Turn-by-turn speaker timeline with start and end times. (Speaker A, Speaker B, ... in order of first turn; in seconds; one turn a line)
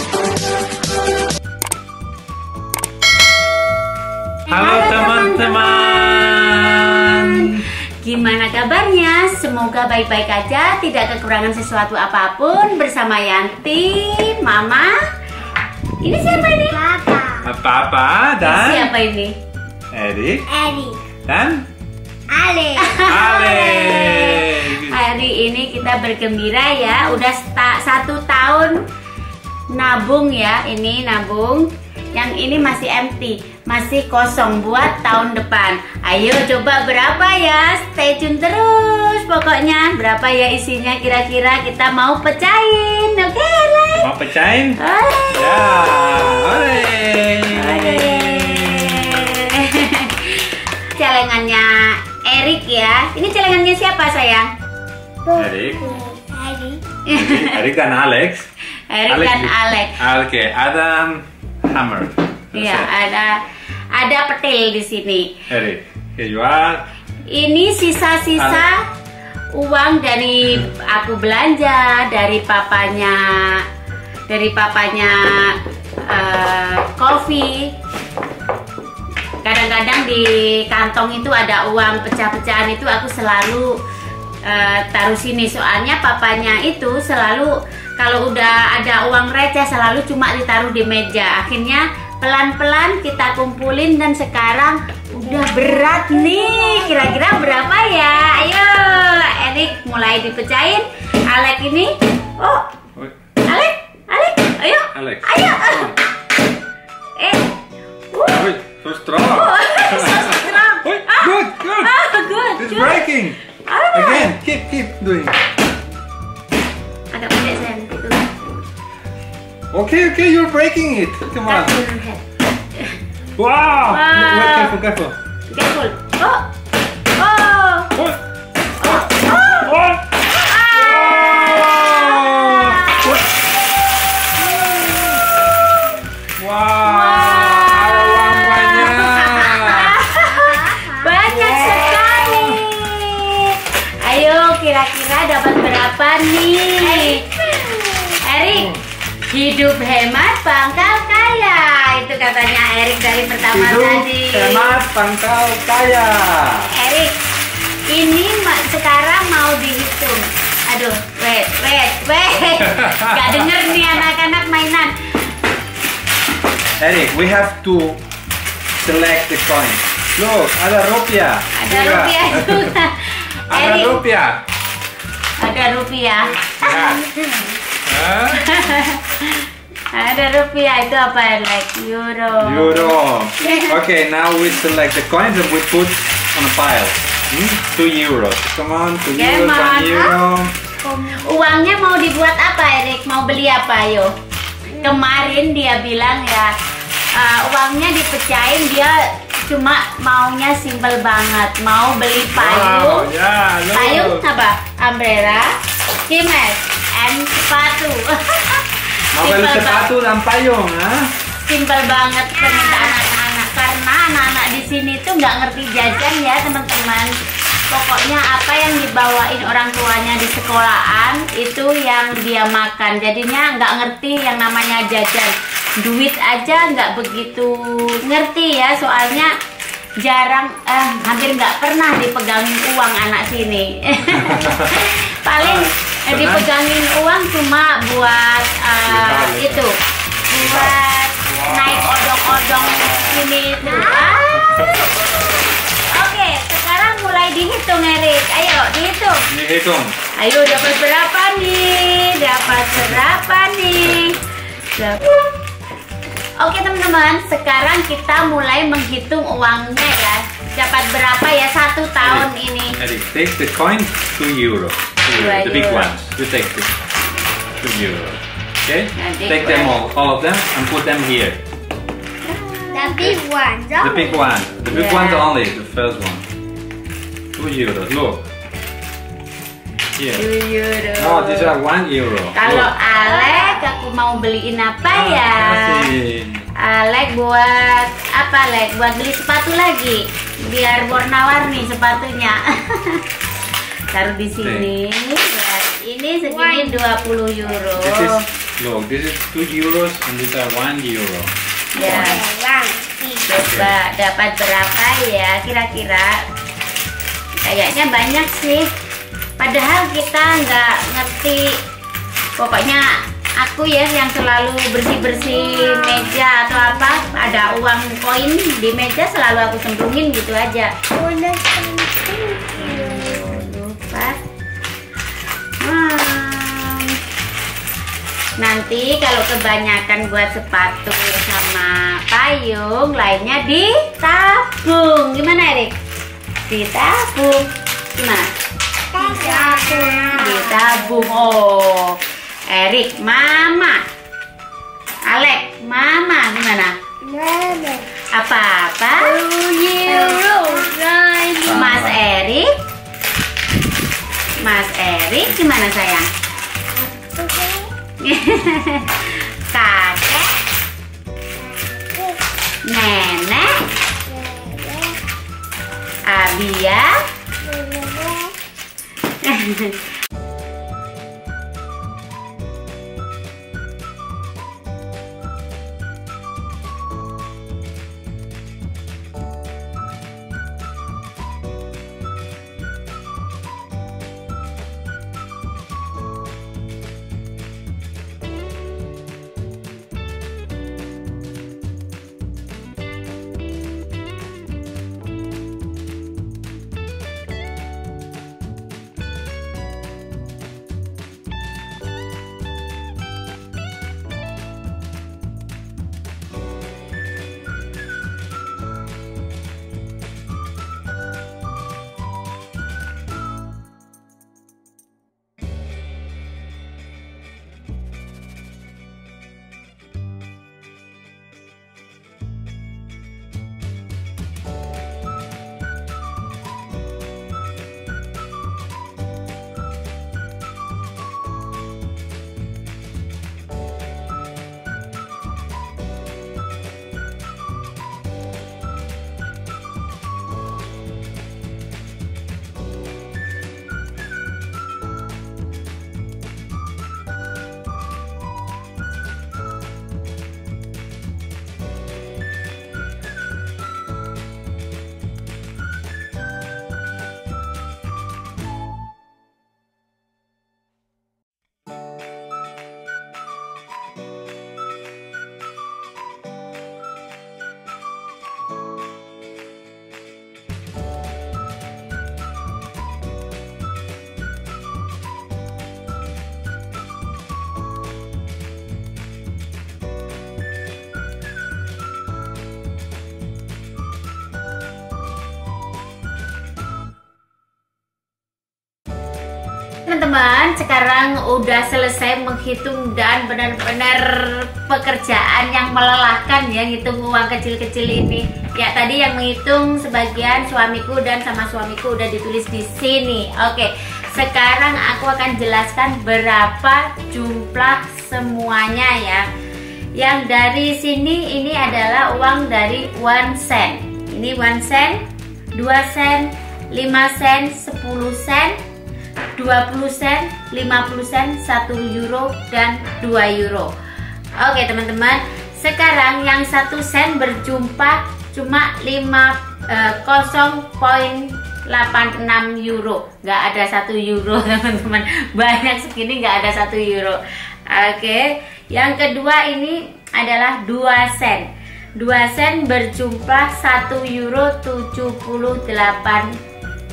Speaker A: 4.5-14.9
Speaker B: 4.5-7.6
Speaker A: 16.0-16.8
Speaker C: 16.1-17.5
Speaker B: 17.4-18.9
Speaker A: 18.4-19.4
Speaker B: 19.9-20.4
Speaker C: 20.5-21.0
Speaker B: 21.3-21.6
Speaker C: 22.3-23.1
Speaker A: 22.8-28.8
Speaker B: 23.1-25.0
Speaker A: 29.7-44.1
Speaker B: 44.0-44.8
Speaker A: 44.8-46.7
Speaker B: 45.3-49.2
Speaker A: 47.5-54.5
Speaker C: 55.2-56.8
Speaker B: 55.4-56.0
Speaker A: 57.0-57.6
Speaker B: 57.1-58.5
Speaker A: 58.9-60.0
Speaker B: 59.1-62.9
Speaker A: 62.5-65.3
Speaker B: 65.5-66.9
Speaker A: 67.3-68.8
Speaker B: 68.4-68.7
Speaker A: 69.5-73.6
Speaker A: 74.3-77.7
Speaker A: 79.4-83.7
Speaker A: 84.5-102.7
Speaker C: 95.9-97.0
Speaker A: 103.5-106.0
Speaker B: 104.9-106.0
Speaker A: 107.2-107.5
Speaker A: 108.1-108.5
Speaker B: 108.3-112.0
Speaker A: 109.2-113.0
Speaker B: 112.6-113.4
Speaker A: 113.7-114.3
Speaker B: 113.9-115.4
Speaker A: 117.1-118.3
Speaker B: 119.7-121.8
Speaker A: 121.5-122.2
Speaker B: 123.4-125.2
Speaker A: 123.9-124.8
Speaker A: 125.5-126.5
Speaker A: 127.2-128.0
Speaker A: 128.8-129.8
Speaker B: 128.8-133.2
Speaker A: 130.3-133.2
Speaker B: 136.4-140.0
Speaker A: 136.8-147.2
Speaker C: 139.6-142.1
Speaker B: 141.3-142.7
Speaker C: 146.8-148.2
Speaker A: 148.2-148.7
Speaker B: 148.5-148.8
Speaker A: 149.3-154.8
Speaker B: 153.5-156.7
Speaker A: 156.7-157.2
Speaker A: 157.9-164.9
Speaker B: 162.7-163.5
Speaker B: 166.8-168.0
Speaker B: 168.8-172.8
Speaker A: 171.6-174.0
Speaker B: 173.5-174.4
Speaker A: 175.4-176.4
Speaker B: 176.4-177.1
Speaker C: 176.7-177.5
Speaker B: 177.9-178.5
Speaker A: 178.3-183.7
Speaker B: 182.4-190.5
Speaker A: 189.1-190.2
Speaker C: 190.8-191.2
Speaker A: 191.0-194.1
Speaker A: 194.8-196.5
Speaker C: 194.8-195.1
Speaker A: 197.1-203.1
Speaker B: 202.3-204.2
Speaker A: 203.7-205.5
Speaker A: 206.1-209.9
Speaker B: 209.2-211.1
Speaker A: 211.4-217.1
Speaker C: 212.5-213.0
Speaker A: 217.7-229.3
Speaker A: 230.0-239.8
Speaker B: 234.3-234.8
Speaker B: 235.4-236.5
Speaker B: 238.9-239.7
Speaker A: 240.3-245.2
Speaker B: 240.3-241.9
Speaker B: 242.8-243.1
Speaker B: 244.4-244.8
Speaker A: 245.9-249.2
Speaker B: 249.3-249.9
Speaker A: 250.2-254.2
Speaker A: 254.7-255.2
Speaker A: 256.4-262.8
Speaker B: 262.0-266.7
Speaker A: 265.1-265.9
Speaker B: 267.6-271.4
Speaker A: 269.0-269.8
Speaker A: 272.3-273.2
Speaker C: 272.7-274.3
Speaker B: 273.8-276.2
Speaker A: 274.7-275.3
Speaker B: 277.4-278.3
Speaker B: 280.0-280.2
Speaker A: 280.2-281.5
Speaker B: 281.0-282.7
Speaker A: 282.3-285.9
Speaker C: 283.0-283.6
Speaker B: 284.9-286.5
Speaker A: 286.6-293.1
Speaker A: 293.9-298.2
Speaker B: 294.4-294.7
Speaker C: 296.2-297.1
Speaker B: 297.8-302.1
Speaker A: 301.7-302.2
Speaker C: 301.8-303.3
Speaker A: 303.2-306.1
Speaker B: 303.5-303.8
Speaker A: 307.4-308.7
Speaker A: 309.4-311.6
Speaker A: 312.4-320.7
Speaker C: 315.1-316.1
Speaker C: 316.9-317.1
Speaker C: 320.9-323.4
Speaker A: 322.6-324.2
Speaker A: 325.6-327.0
Speaker A: 328.4-335.8
Speaker A: 336.5-338.3
Speaker C: 338.9-340.9
Speaker A: 339.0-343.8
Speaker A: 345.1-346.7
Speaker C: 347.0-347.9
Speaker A: 348.1-350.7
Speaker C: 349.0-351.7
Speaker B: 351.5-352.0
Speaker A: 351.5-352.5
Speaker A: 354.4-356.1
Speaker C: 356.8-357.7
Speaker A: 358.0-360.4
Speaker C: 361.4-362.2
Speaker A: 362.7-363.6
Speaker C: 364.1-365.0
Speaker A: 366.1-367.0
Speaker C: 367.4-368.4
Speaker A: 369.2-369.8
Speaker A: 489.9-509.3
Speaker A: 510.0-515.0
Speaker A: 515.5-518.6
Speaker A: 519.4-523.7
Speaker A: 524.4-537.2
Speaker A: 537.7-546.3